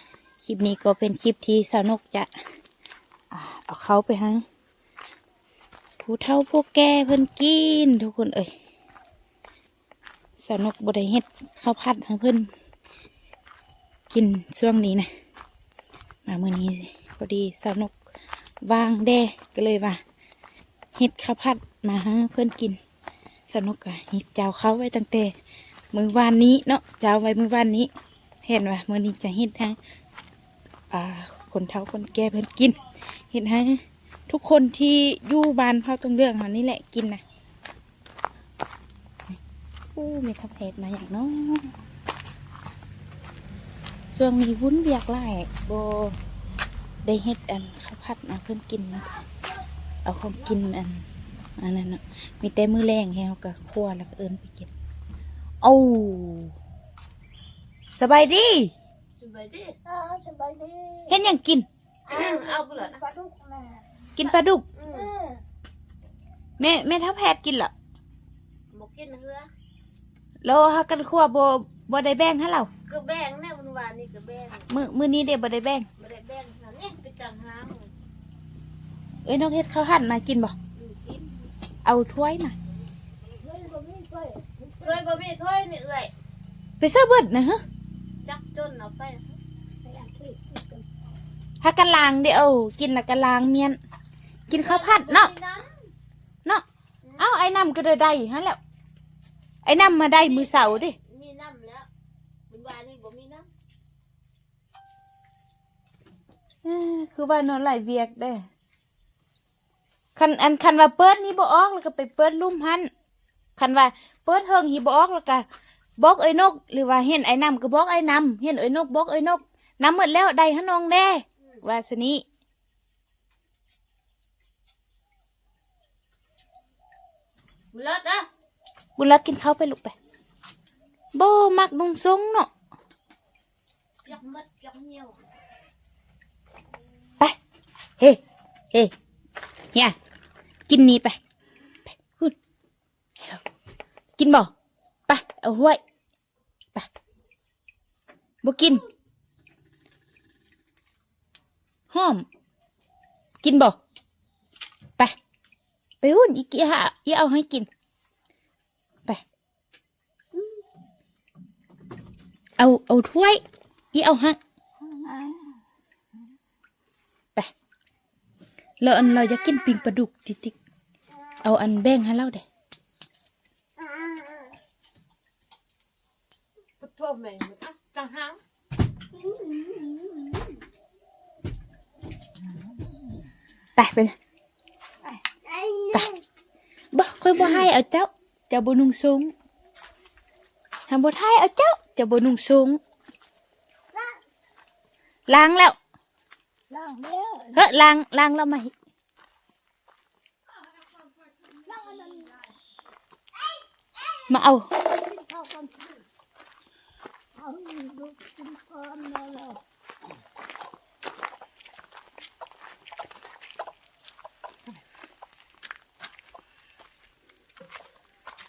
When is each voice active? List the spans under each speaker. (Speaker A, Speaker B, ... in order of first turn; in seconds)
Speaker A: 0.4-2.3, 3.3-4.4, 6.0-8.5, 10.4-12.5, 14.1-15.1, 16.2-17.9, 18.6-20.0, 20.9-22.8, 23.5-25.3, 25.9-27.9, 28.4-29.8, 30.9-37.2, 39.9-41.8, 44.1-46.1, 47.0-49.1, 50.0-51.0, 51.6-54.7, 55.6-56.5, 57.9-58.7, 61.1-61.7, 64.1-64.7, 66.6-67.7, 70.4-72.7, 74.7-75.9, 79.2-80.5, 81.8-82.6, 86.8-87.6, 91.6-93.8, 94.5-95.3, 97.2-98.6, 99.6-101.0, 106.6-108.5, 110.2-112.9, 113.6-115.5, 116.0-122.2, 129.0-129.9, 131.1-132.5, 140.7-141.2, 141.9-142.3, 143.2-143.4, 144.2-144.5, 145.1-145.8, 148.4-148.8, 151.9-152.2, 153.4-153.8, 156.0-157.7, 162.6-163.4, 163.9-165.4, 168.8-170.6, 171.4-172.4, 183.8-184.2, 185.9-186.2, 186.9-189.3, 190.9-192.8, 195.3-195.8, 197.5-198.7, 204.2-204.7
Speaker B: 59.1-59.8, 62.1-63.0, 64.8-65.1, 68.7-69.5, 72.9-74.7, 76.0-77.9, 80.7-81.5, 83.3-83.7, 84.8-86.1, 88.2-89.4, 94.5-95.7, 99.8-101.9, 102.5-103.5, 127.7-128.3, 134.1-135.2, 176.8-178.4
Speaker C: 59.9-61.1, 62.1-63.8, 64.9-65.4, 83.5-84.9, 89.8-90.8, 179.3-180.2, 185.4-186.0, 196.7-197.5, 201.5-202.4, 205.0-205.9, 207.4-209.6